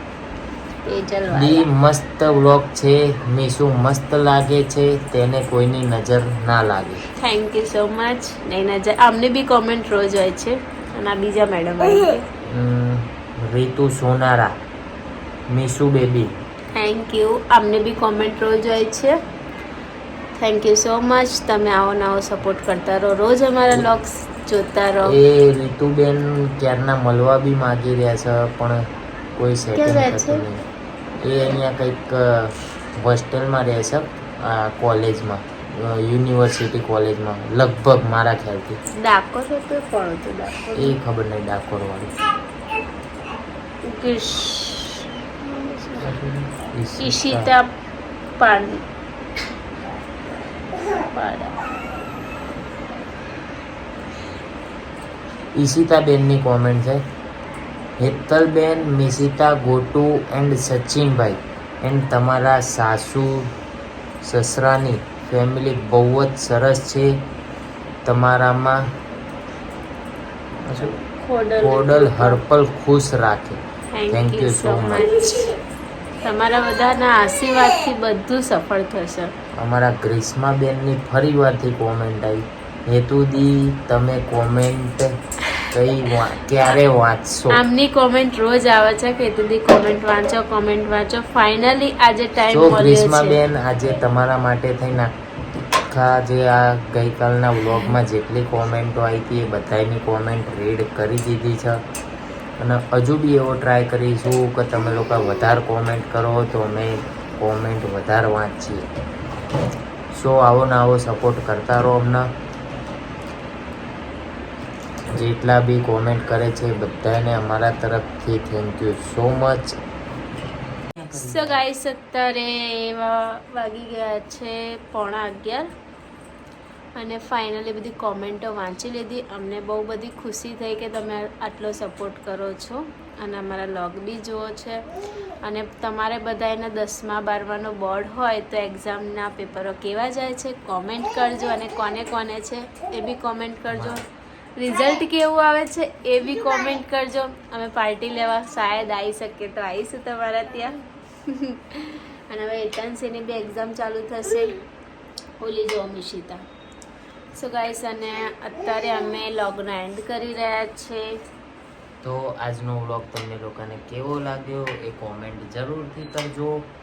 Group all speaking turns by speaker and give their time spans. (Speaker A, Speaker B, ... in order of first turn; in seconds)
Speaker A: 0.8-1.7, 7.2-12.2, 16.7-19.1, 20.4-25.1, 29.8-30.4, 39.0-41.0, 43.8-46.2, 47.0-47.7, 48.4-48.8, 50.8-51.6, 70.8-72.4, 73.9-75.5, 76.2-79.3, 87.5-93.4, 121.1-125.7, 127.0-134.8, 135.4-144.0, 144.6-154.6, 155.4-156.4, 157.3-161.1
Speaker B: 1.3-7.0, 12.4-14.6, 15.5-16.3, 25.0-28.8, 29.4-30.6, 31.2-38.8, 40.8-42.1, 46.0-47.5, 55.5-57.0, 58.0-63.5, 64.2-67.2, 68.0-68.8, 70.6-71.0, 71.6-75.4, 79.5-85.1, 85.7-87.6, 92.5-95.1, 95.9-101.8, 102.6-108.9, 110.1-112.3, 115.1-119.8, 121.0-121.6, 143.7-144.0, 162.0-166.7